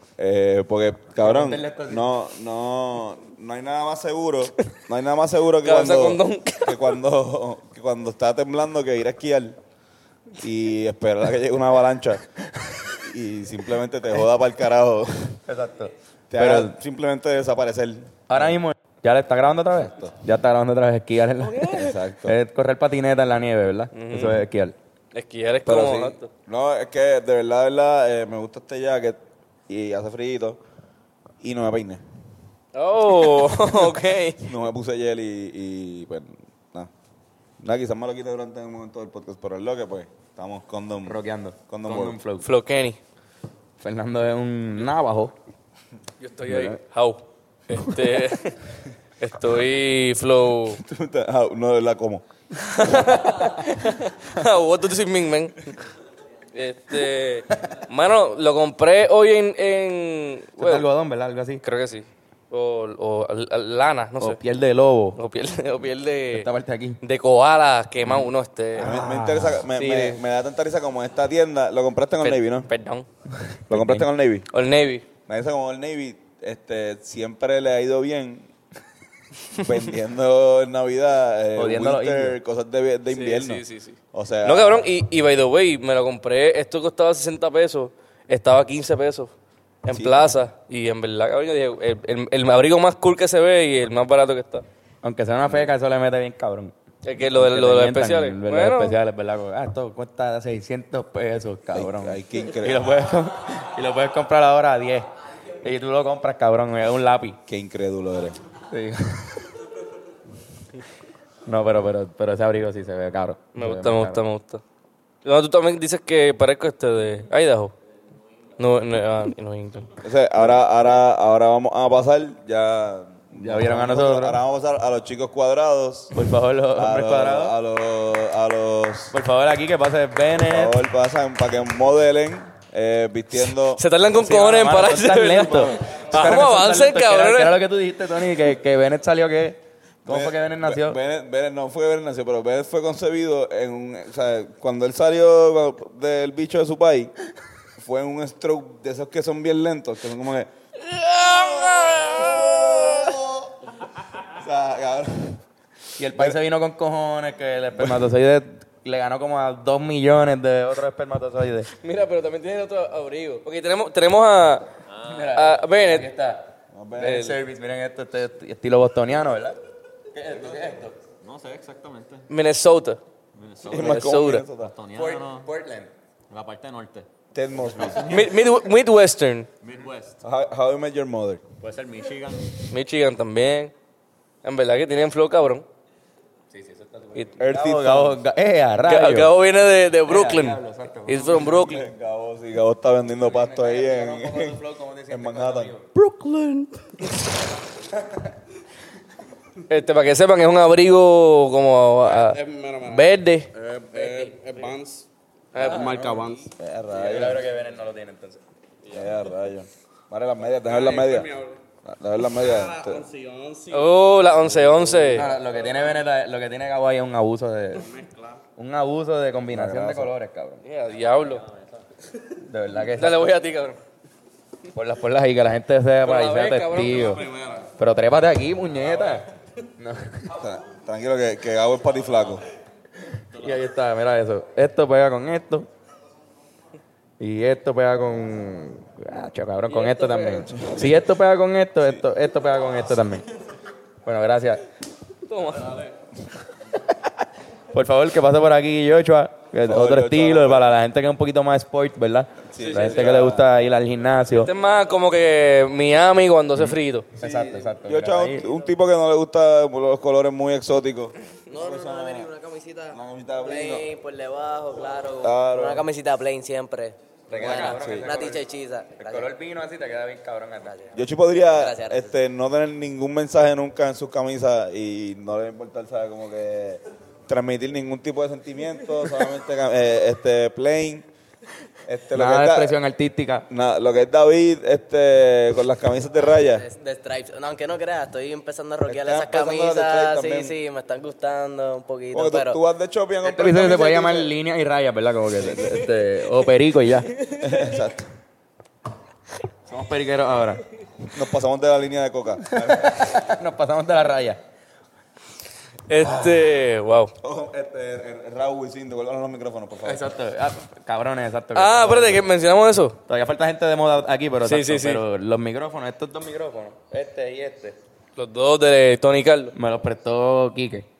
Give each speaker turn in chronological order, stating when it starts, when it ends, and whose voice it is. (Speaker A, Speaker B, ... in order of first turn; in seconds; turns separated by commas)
Speaker A: 0.2-9.6, Speaker B: 1.2-2.1, Speaker C: 5.6-7.0, Speaker A: 10.4-12.2, Speaker A: 12.9-15.4, Speaker B: 15.5-16.8, Speaker A: 16.3-18.6, Speaker B: 18.3-24.8, Speaker A: 19.8-20.1, Speaker C: 21.4-21.9, Speaker A: 21.6-22.4, Speaker C: 23.9-24.4, Speaker C: 25.1-26.3, Speaker A: 25.6-30.6, Speaker A: 31.4-32.0, Speaker C: 32.7-34.5, Speaker A: 34.4-36.9, Speaker A: 37.6-42.2, Speaker B: 41.0-42.5, Speaker C: 42.4-43.0, Speaker B: 43.8-45.3, Speaker C: 46.2-48.7, Speaker A: 46.5-46.7, Speaker C: 49.2-50.8, Speaker A: 50.7-52.2, Speaker C: 52.6-55.8, Speaker C: 56.5-60.8, Speaker B: 60.6-61.6, Speaker C: 61.6-64.4, Speaker B: 64.2-65.2, Speaker C: 65.2-66.5, Speaker B: 66.3-67.0, Speaker C: 67.0-68.9, Speaker B: 68.8-69.7, Speaker A: 68.8-72.7, Speaker C: 69.7-70.2, Speaker C: 72.2-73.1, Speaker B: 73.7-74.0, Speaker A: 73.7-74.5, Speaker C: 74.5-75.0, Speaker A: 75.3-78.5, Speaker A: 79.6-84.9, Speaker B: 81.5-82.4, Speaker C: 83.1-89.3, Speaker C: 89.8-94.6, Speaker A: 89.9-90.3, Speaker B: 95.0-96.7, Speaker C: 97.0-99.0, Speaker B: 97.3-105.1, Speaker A: 101.7-103.0, Speaker B: 105.6-107.4, Speaker A: 107.5-108.4, Speaker B: 108.7-109.5, Speaker B: 111.5-114.2, Speaker C: 113.5-114.6, Speaker C: 115.2-117.7, Speaker C: 118.6-119.9, Speaker A: 120.0-126.1, Speaker B: 123.3-124.4, Speaker B: 126.1-127.5, Speaker A: 126.7-129.1, Speaker B: 129.1-130.8, Speaker A: 130.4-133.8, Speaker C: 133.3-137.6, Speaker B: 134.2-141.0, Speaker A: 135.5-135.8, Speaker A: 140.1-147.1, Speaker A: 147.8-153.5, Speaker C: 151.2-152.7, Speaker A: 154.2-155.4, Speaker B: 156.0-161.7, Speaker A: 157.8-158.0, Speaker C: 161.8-164.7, Speaker D: 164.9-165.3, Speaker B: 165.0-169.6, Speaker C: 165.3-166.1, Speaker A: 166.7-167.3, Speaker C: 167.0-167.4, Speaker B: 170.1-170.9, Speaker D: 171.2-172.2, Speaker C: 172.3-173.0, Speaker D: 173.3-175.5, Speaker A: 173.7-174.7, Speaker C: 173.7-174.4, Speaker B: 174.9-175.9, Speaker D: 176.3-177.1, Speaker A: 177.3-178.2, Speaker C: 178.0-179.5, Speaker D: 179.6-180.2, Speaker A: 180.2-181.4, Speaker D: 181.6-182.5, Speaker C: 182.6-183.7, Speaker C: 184.4-185.7, Speaker B: 186.5-189.3, Speaker A: 187.4-188.2, Speaker C: 188.8-191.8, Speaker B: 190.1-191.8, Speaker A: 191.4-195.7, Speaker B: 193.2-195.9, Speaker C: 196.0-196.7, Speaker C: 199.7-203.5, Speaker E: 202.1-205.1, Speaker B: 203.9-204.3, Speaker C: 205.5-206.1, Speaker B: 205.6-206.4, Speaker E: 205.6-206.5, Speaker A: 206.6-207.4, Speaker B: 206.9-208.4, Speaker A: 208.9-213.0, Speaker E: 210.6-211.6, Speaker E: 212.2-213.9, Speaker C: 213.7-215.3, Speaker A: 214.5-214.8, Speaker B: 215.1-217.9, Speaker E: 215.3-215.8, Speaker E: 217.8-218.4, Speaker B: 218.6-220.6, Speaker A: 219.5-220.1, Speaker C: 220.6-221.4, Speaker D: 221.4-221.8, Speaker B: 222.5-223.2, Speaker C: 222.9-223.8, Speaker B: 224.7-230.2, Speaker C: 226.0-227.4, Speaker E: 227.1-227.6, Speaker A: 230.3-232.4, Speaker B: 233.3-235.7, Speaker B: 237.2-243.2, Speaker C: 239.7-240.7, Speaker B: 244.0-244.6, Speaker C: 245.3-245.9, Speaker B: 247.7-254.5, Speaker A: 249.6-250.7, Speaker A: 252.5-253.5, Speaker C: 252.6-253.0, Speaker C: 254.4-257.1, Speaker B: 257.2-258.5, Speaker A: 257.2-262.3, Speaker F: 261.5-269.3, Speaker A: 262.9-263.9, Speaker A: 265.2-265.9, Speaker B: 267.3-268.4, Speaker A: 267.4-268.1, Speaker B: 269.0-270.9, Speaker A: 270.9-281.1, Speaker F: 271.4-272.1, Speaker A: 281.8-282.8, Speaker B: 282.1-283.4, Speaker A: 283.5-286.7, Speaker F: 286.5-292.6, Speaker A: 288.9-290.6, Speaker A: 292.1-294.3, Speaker B: 293.2-297.1, Speaker A: 297.4-298.1, Speaker B: 299.7-300.6, Speaker A: 301.1-303.0, Speaker B: 302.5-304.4, Speaker C: 305.9-307.1, Speaker A: 307.2-310.1, Speaker B: 309.8-312.2, Speaker C: 311.5-313.0, Speaker B: 313.1-317.8, Speaker C: 314.4-315.0, Speaker C: 318.2-319.5, Speaker B: 319.5-320.9